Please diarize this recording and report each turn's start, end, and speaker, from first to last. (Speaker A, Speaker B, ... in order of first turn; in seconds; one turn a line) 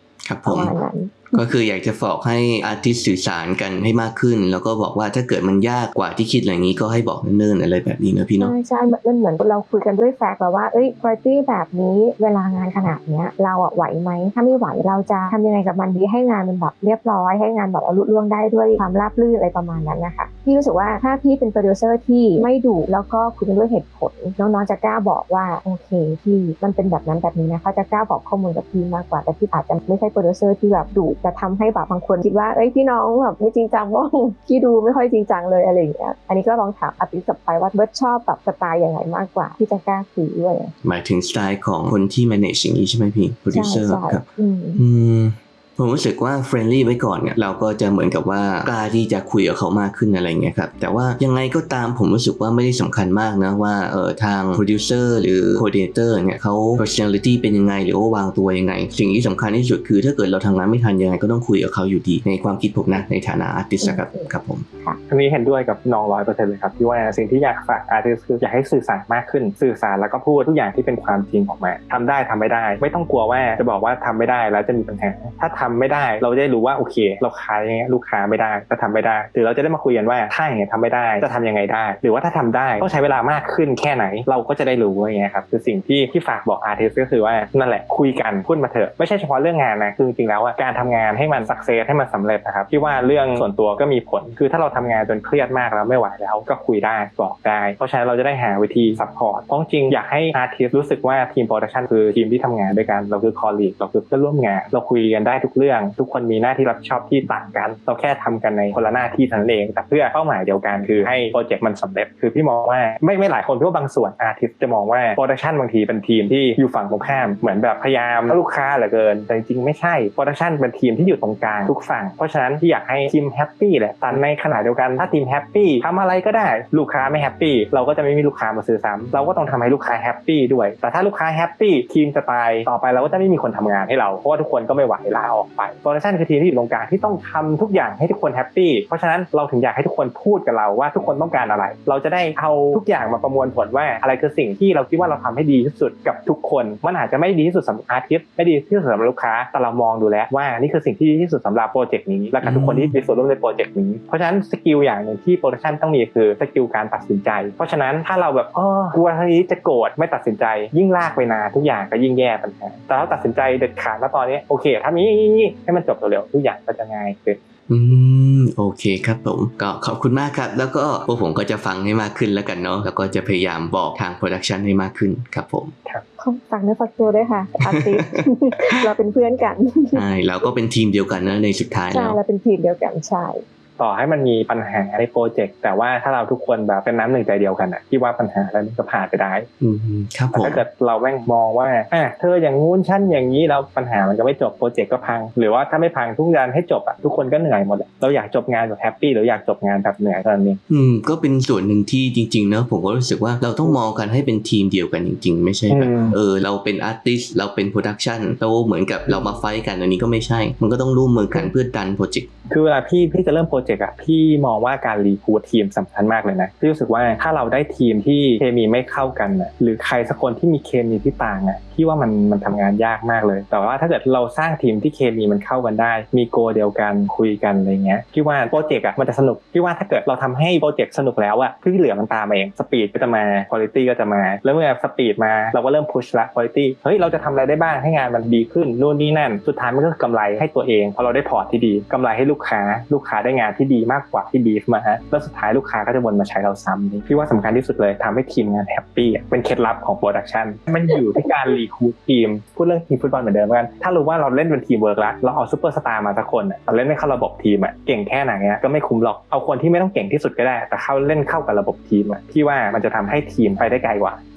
Speaker A: 0.2-0.7
Speaker B: 0.4-1.5
Speaker A: 1.3-8.5
Speaker B: 8.4-40.7
Speaker A: 40.8-44.2
Speaker B: 43.5-44.8
Speaker A: 44.8-64.7
Speaker B: 63.8-64.3
Speaker C: 65.1-167.4
Speaker A: 152.4-152.9
Speaker A: 167.7-175.7
Speaker B: 176.2-180.0
Speaker A: 177.7-178.3
Speaker A: 179.9-182.2
Speaker B: 181.9-183.4
Speaker C: 183.8-189.5
Speaker A: 189.6-190.6
Speaker C: 190.3-200.6
Speaker A: 200.7-212.3
Speaker C: 205.7-206.2
Speaker C: 209.1-209.4
Speaker C: 212.5-264.2